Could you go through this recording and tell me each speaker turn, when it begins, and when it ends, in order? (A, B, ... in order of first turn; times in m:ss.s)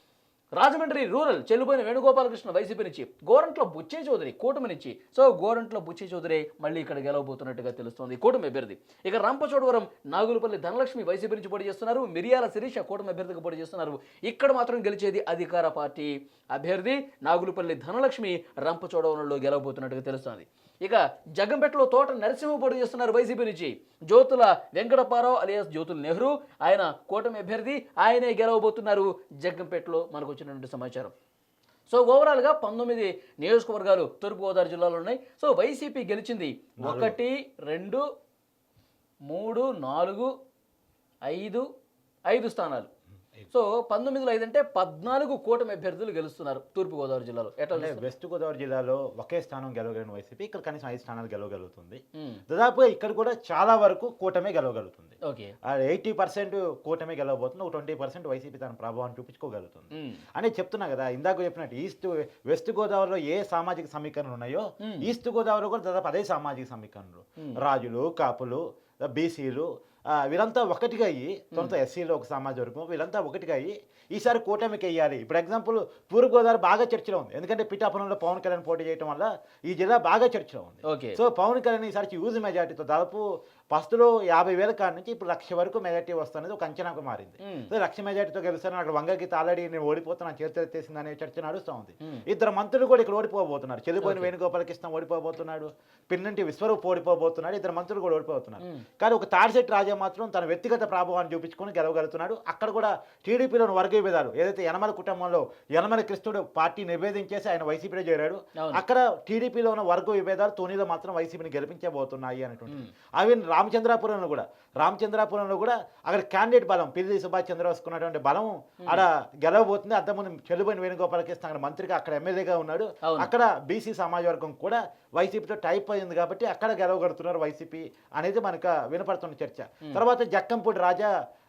0:00.6-0:31.1 A
0:31.9-0:38.0 A
0:36.8-0:37.2 B
0:39.3-0:40.3 A
0:41.2-0:41.6 A
0:42.3-0:42.9 A
0:43.5-0:48.0 A
0:47.7-0:55.1 B
0:55.2-0:55.5 A
0:55.6-2:11.1 B
0:59.9-1:00.2 A
1:04.8-1:05.1 A
1:20.8-1:21.2 A
1:27.4-1:27.7 A
1:34.0-1:34.3 A
1:48.6-1:48.8 A
2:03.0-2:03.3 A